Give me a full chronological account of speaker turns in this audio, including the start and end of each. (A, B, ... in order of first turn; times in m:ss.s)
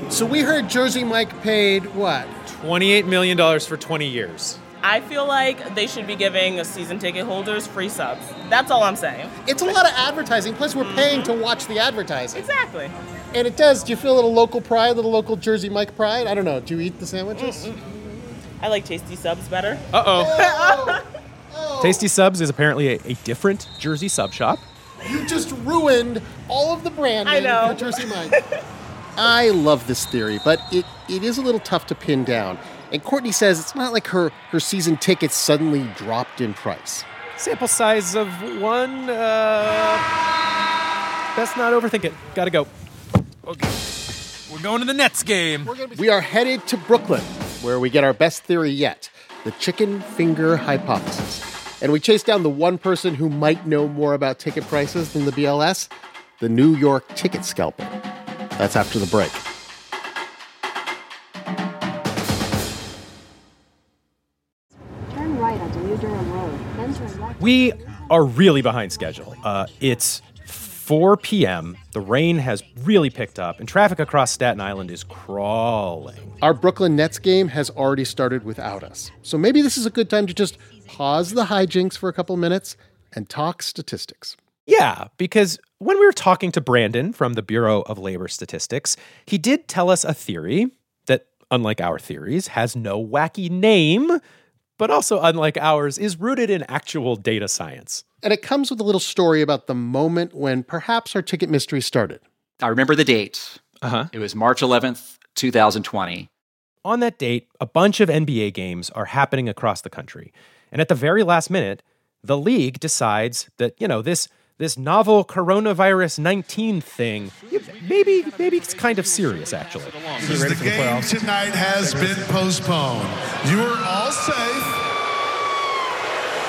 0:00.1-0:02.3 A
0:02.4-0:04.6 B
0:04.8-0:09.3 C
0:09.4-0:12.4 A
0:10.8-0:11.3 C
0:12.3-0:12.9 C
0:13.3-0:17.7 A
0:17.3-0:18.0 C
0:18.6-0:21.0 C
0:19.9-0:20.4 B
0:20.1-0:22.0 A
0:21.8-0:24.6 B
0:25.0-0:28.4 A
0:27.2-0:28.5 C
0:29.2-0:37.1 A
0:37.4-0:40.1 B
0:41.3-0:42.7 B
0:44.5-0:45.7 B
0:45.8-0:58.0 A
0:58.6-0:59.4 A
1:05.1-1:08.0 D
1:07.4-1:16.3 B
1:16.4-1:24.4 A
1:24.7-1:34.2 B
1:34.8-1:38.0 B
1:38.2-1:42.2 A
1:42.6-1:43.6 E
1:43.8-1:44.1 B
1:44.1-1:46.3 E
1:46.8-2:01.0 B
2:00.2-2:04.8 F